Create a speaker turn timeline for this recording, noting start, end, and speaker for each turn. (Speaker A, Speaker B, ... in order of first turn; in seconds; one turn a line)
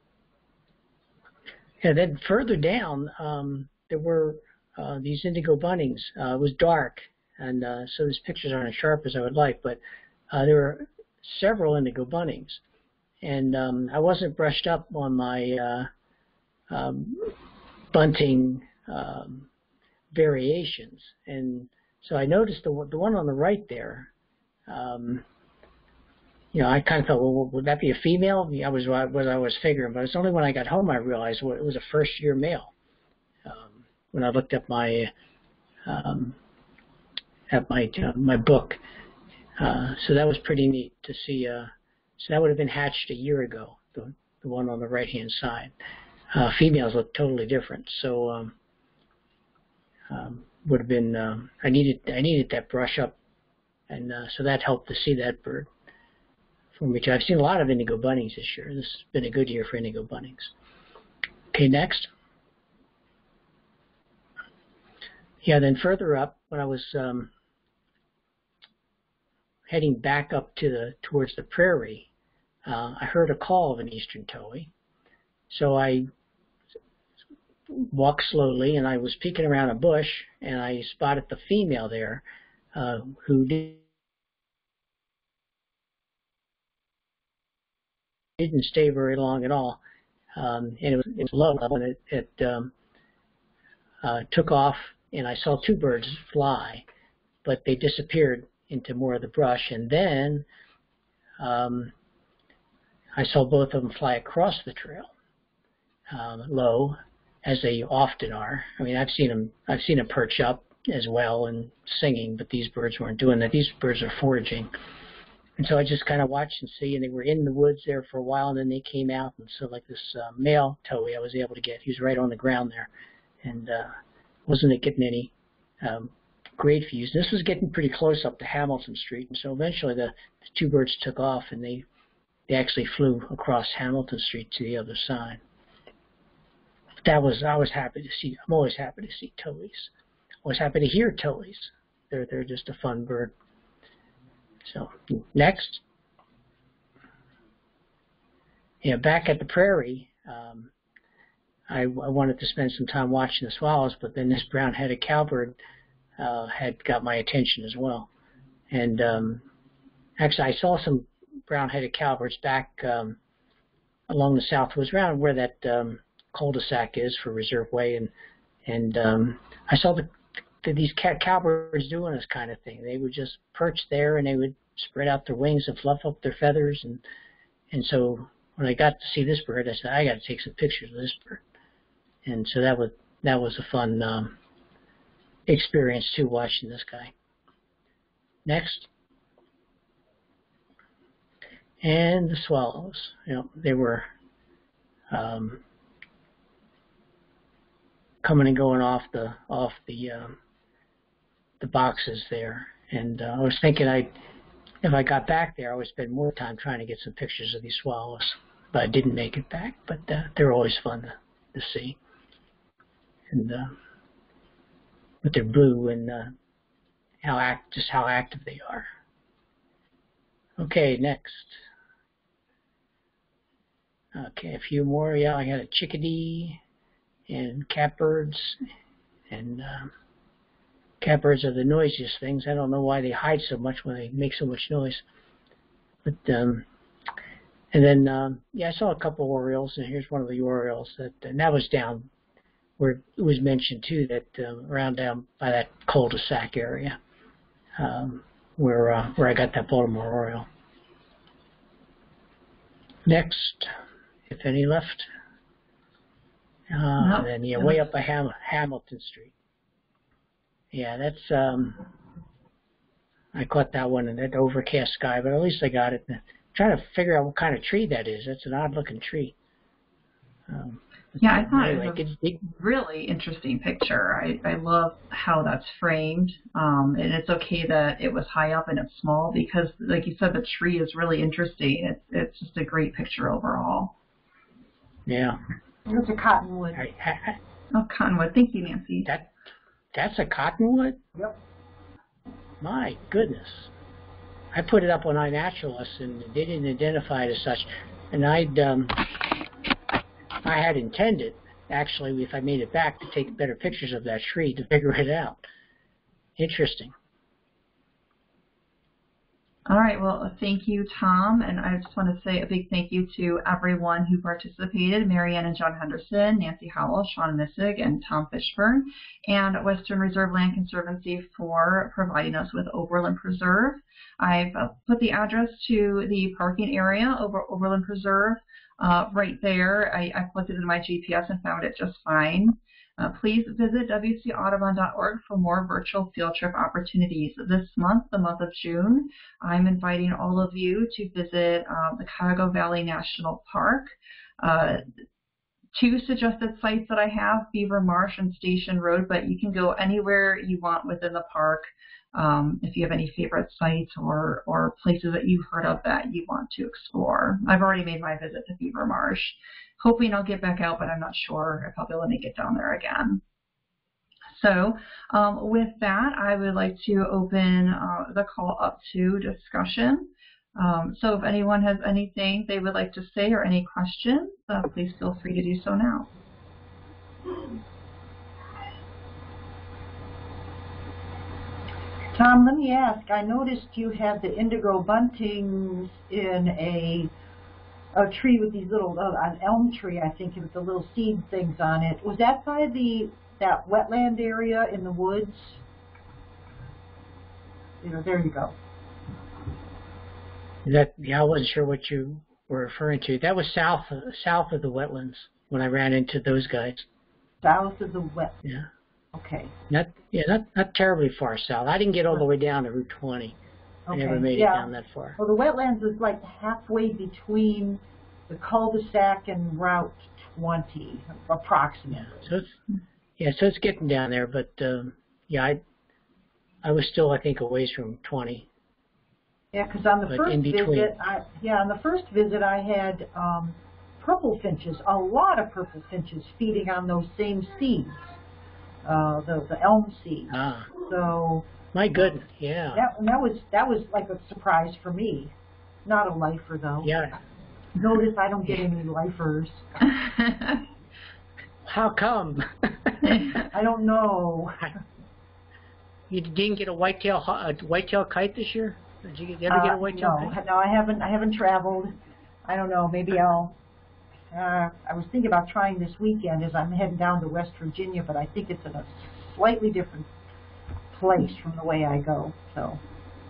Speaker A: 1.8-12.6
Speaker A: 13.2-15.9
Speaker A: 16.7-17.3
Speaker A: 17.9-19.5
Speaker A: 20.1-24.1
Speaker A: 24.7-25.2
Speaker A: 26.5-32.7
Speaker A: 33.4-35.1
Speaker A: 35.9-36.4
Speaker A: 37.5-38.8
Speaker A: 39.6-45.7
Speaker A: 46.3-48.5
Speaker A: 50.1-53.2
Speaker A: 53.9-55.7
Speaker A: 56.8-60.5
Speaker A: 61.5-62.1
Speaker A: 65.4-67.3
Speaker A: 69.7-72.1
Speaker A: 72.6-74.7
Speaker A: 75.5-76.0
Speaker A: 77.7-83.8
Speaker A: 88.4-89.8
Speaker A: 90.3-92.7
Speaker A: 94.0-96.8
Speaker A: 97.4-100.5
Speaker A: 101.4-101.9
Speaker A: 103.2-105.1
Speaker A: 106.1-114.7
Speaker A: 115.6-122.9
Speaker A: 123.4-123.9
Speaker A: 124.5-131.8
Speaker A: 132.5-135.4
Speaker A: 137.0-139.9
Speaker A: 140.4-143.3
Speaker A: 144.6-145.8
Speaker A: 148.8-150.7
Speaker A: 151.7-155.6
Speaker A: 156.2-158.1
Speaker A: 158.7-159.4
Speaker A: 160.2-163.2
Speaker A: 164.1-168.1
Speaker A: 168.7-170.1
Speaker A: 170.6-177.0
Speaker A: 177.7-181.4
Speaker A: 182.2-184.3
Speaker A: 185.5-187.1
Speaker A: 188.4-188.9
Speaker A: 191.8-194.1
Speaker A: 195.1-195.6
Speaker A: 198.2-200.3
Speaker A: 201.6-204.1
Speaker A: 204.8-212.0
Speaker A: 213.3-213.7
Speaker A: 215.2-216.3
Speaker A: 217.2-218.8
Speaker A: 220.6-221.6
Speaker A: 224.1-226.6
Speaker A: 227.3-228.6
Speaker A: 229.3-229.9
Speaker A: 231.0-235.0
Speaker A: 236.0-236.6
Speaker A: 237.7-242.1
Speaker A: 242.8-247.0
Speaker A: 247.8-250.5
Speaker A: 253.1-253.7
Speaker A: 254.3-255.1
Speaker A: 256.7-259.3
Speaker B: 257.0-257.8
Speaker A: 260.7-261.8
Speaker A: 263.3-269.3
Speaker A: 270.5-272.4
Speaker B: 271.2-283.9
Speaker A: 285.1-285.4
Speaker C: 285.9-286.8
Speaker A: 286.8-287.4
Speaker B: 287.7-289.1
Speaker A: 289.9-291.0
Speaker A: 292.6-293.7
Speaker A: 294.5-299.0
Speaker A: 300.4-305.4
Speaker A: 306.4-306.9
Speaker B: 309.7-344.9
Speaker B: 345.7-363.2
Speaker B: 364.3-376.1
Speaker C: 382.1-387.1
Speaker C: 387.9-395.6
Speaker C: 397.8-398.6
Speaker A: 400.6-406.9
Speaker C: 407.4-408.4
Speaker C: 409.1-409.5
Speaker A: 409.7-413.4
Speaker C: 413.9-422.1
Speaker A: 413.9-415.2
Speaker A: 422.0-422.5
Speaker A: 423.2-425.6
Speaker A: 426.6-428.5
Speaker C: 429.5-438.1
Speaker A: 430.1-430.9
Speaker C: 438.8-441.5
Speaker A: 440.3-440.7
Speaker A: 441.7-442.8
Speaker C: 442.7-445.3
Speaker C: 445.8-446.9
Speaker A: 446.8-447.1
Speaker C: 447.8-449.8
Speaker B: 449.8-450.6
Speaker A: 451.6-453.2
Speaker B: 453.0-453.5
Speaker C: 453.5-454.7
Speaker A: 456.1-460.3
Speaker C: 459.5-461.9
Speaker C: 462.4-463.6
Speaker C: 464.3-470.1
Speaker C: 470.9-472.8